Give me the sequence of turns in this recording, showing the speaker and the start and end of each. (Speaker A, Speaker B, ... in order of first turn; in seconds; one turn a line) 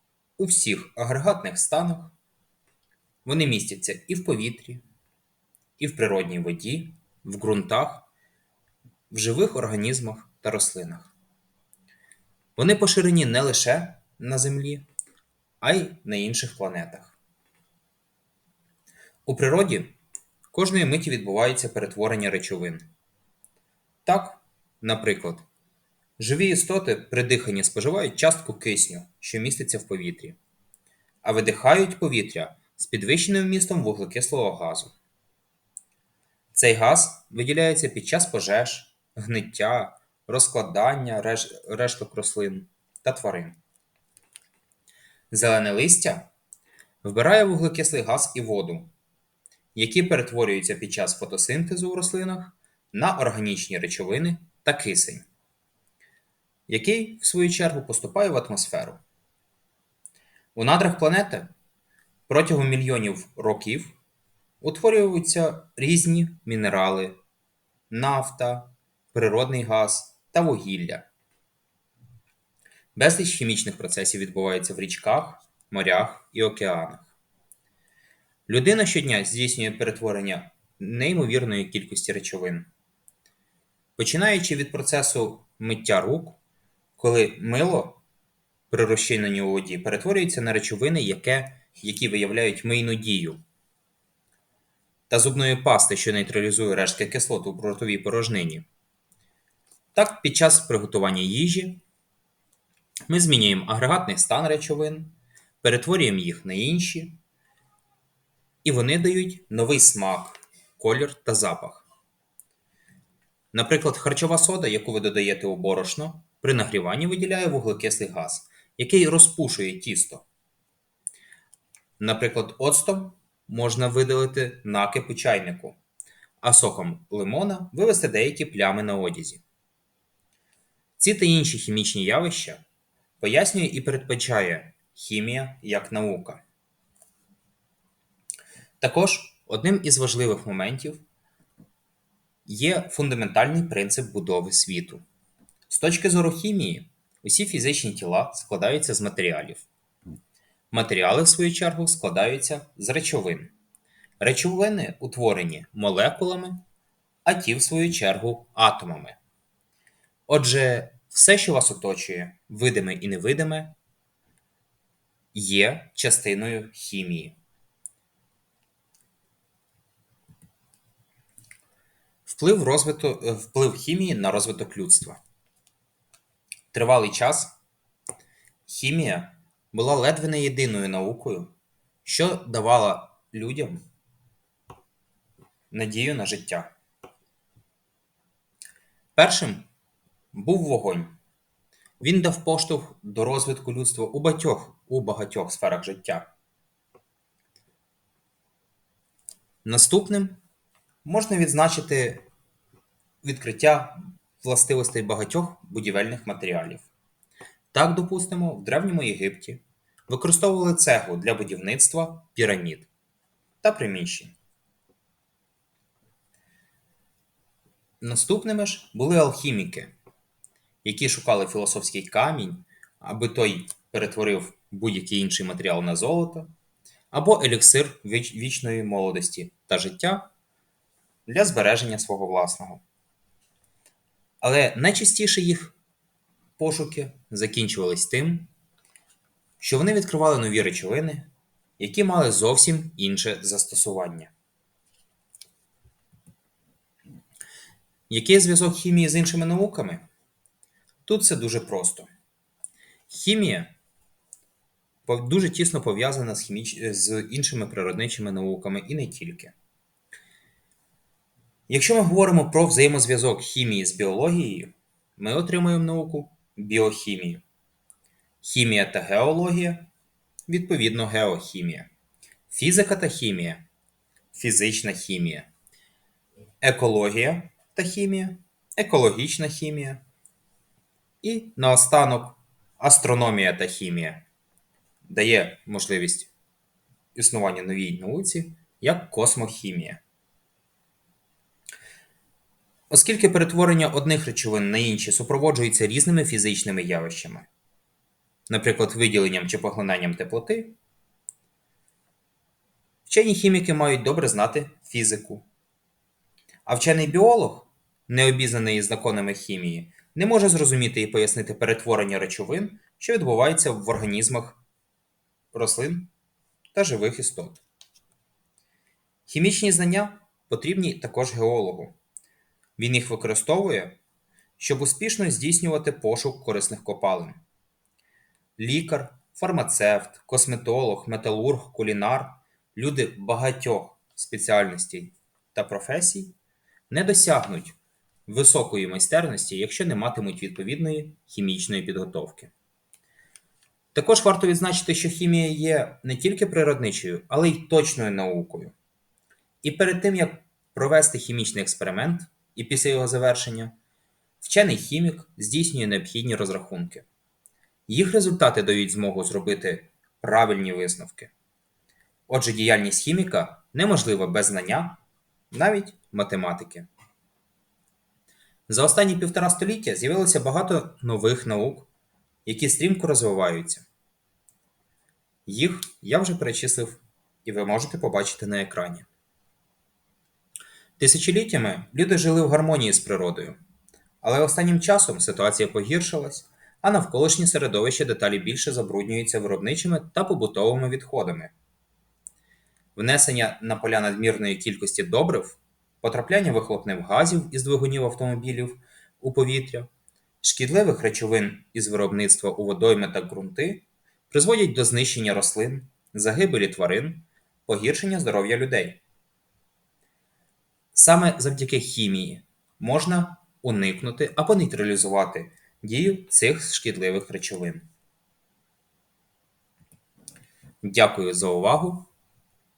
Speaker A: 0.4-2.1
Speaker A: 3.2-4.8
Speaker A: 5.8-8.1
Speaker A: 9.1-11.1
Speaker A: 12.6-14.9
Speaker A: 15.6-17.2
Speaker A: 19.3-20.0
Speaker A: 20.5-22.9
Speaker A: 24.1-25.4
Speaker A: 26.2-30.4
Speaker A: 31.2-35.0
Speaker A: 36.5-43.6
Speaker A: 45.3-46.3
Speaker A: 47.0-48.9
Speaker A: 49.8-55.3
Speaker A: 56.7-59.0
Speaker A: 60.5-61.5
Speaker A: 62.3-64.0
Speaker A: 64.6-67.2
Speaker A: 67.9-71.1
Speaker A: 73.0-77.1
Speaker A: 78.5-82.7
Speaker A: 84.0-86.4
Speaker A: 87.0-88.0
Speaker A: 88.7-93.4
Speaker A: 95.1-98.7
Speaker A: 99.9-101.8
Speaker A: 103.1-107.2
Speaker A: 108.6-111.8
Speaker A: 113.5-120.3
Speaker A: 122.0-125.8
Speaker A: 126.4-129.4
Speaker A: 131.0-132.6
Speaker A: 133.2-136.4
Speaker A: 138.8-141.0
Speaker A: 142.5-145.0
Speaker A: 145.7-149.7
Speaker A: 150.7-153.5
Speaker A: 154.2-156.6
Speaker A: 157.2-159.2
Speaker A: 160.3-163.8
Speaker A: 165.3-167.4
Speaker A: 172.3-175.2
Speaker A: 176.7-177.6
Speaker A: 178.7-181.5
Speaker A: 182.0-183.8
Speaker A: 185.7-186.7
Speaker A: 189.2-189.7
Speaker A: 190.3-191.2
Speaker A: 192.0-196.3
Speaker A: 199.7-200.4
Speaker A: 201.1-202.2
Speaker A: 203.2-206.9
Speaker A: 207.7-212.9
Speaker A: 213.6-214.3
Speaker A: 218.0-219.9
Speaker A: 220.8-226.5
Speaker A: 227.1-230.3
Speaker A: 231.3-232.8
Speaker A: 234.4-235.8
Speaker A: 236.6-238.5
Speaker A: 239.6-244.3
Speaker A: 248.1-250.1
Speaker A: 251.1-252.1
Speaker A: 253.1-253.8
Speaker A: 255.1-259.5
Speaker A: 261.7-267.4
Speaker A: 268.4-269.9
Speaker A: 270.5-271.9
Speaker A: 272.5-273.7
Speaker A: 274.3-275.5
Speaker A: 276.6-280.0
Speaker A: 281.2-284.2
Speaker A: 285.1-286.3
Speaker A: 287.1-290.0
Speaker A: 292.9-297.5
Speaker A: 298.5-300.8
Speaker A: 303.1-305.4
Speaker A: 306.7-314.6
Speaker A: 315.5-316.1
Speaker A: 316.7-317.6
Speaker A: 319.3-322.0
Speaker A: 322.8-324.0
Speaker A: 324.6-327.4
Speaker A: 328.6-336.4
Speaker A: 336.9-337.8
Speaker A: 338.3-342.5
Speaker A: 343.9-348.8
Speaker A: 349.6-353.8
Speaker A: 354.4-357.1
Speaker A: 357.9-361.3
Speaker A: 362.3-365.0
Speaker A: 365.5-366.9
Speaker A: 368.7-371.9
Speaker A: 372.4-373.9
Speaker A: 375.5-379.1
Speaker A: 381.0-383.6
Speaker A: 384.2-391.5
Speaker A: 393.0-399.9
Speaker A: 400.4-409.0
Speaker A: 410.9-417.9
Speaker A: 420.8-422.1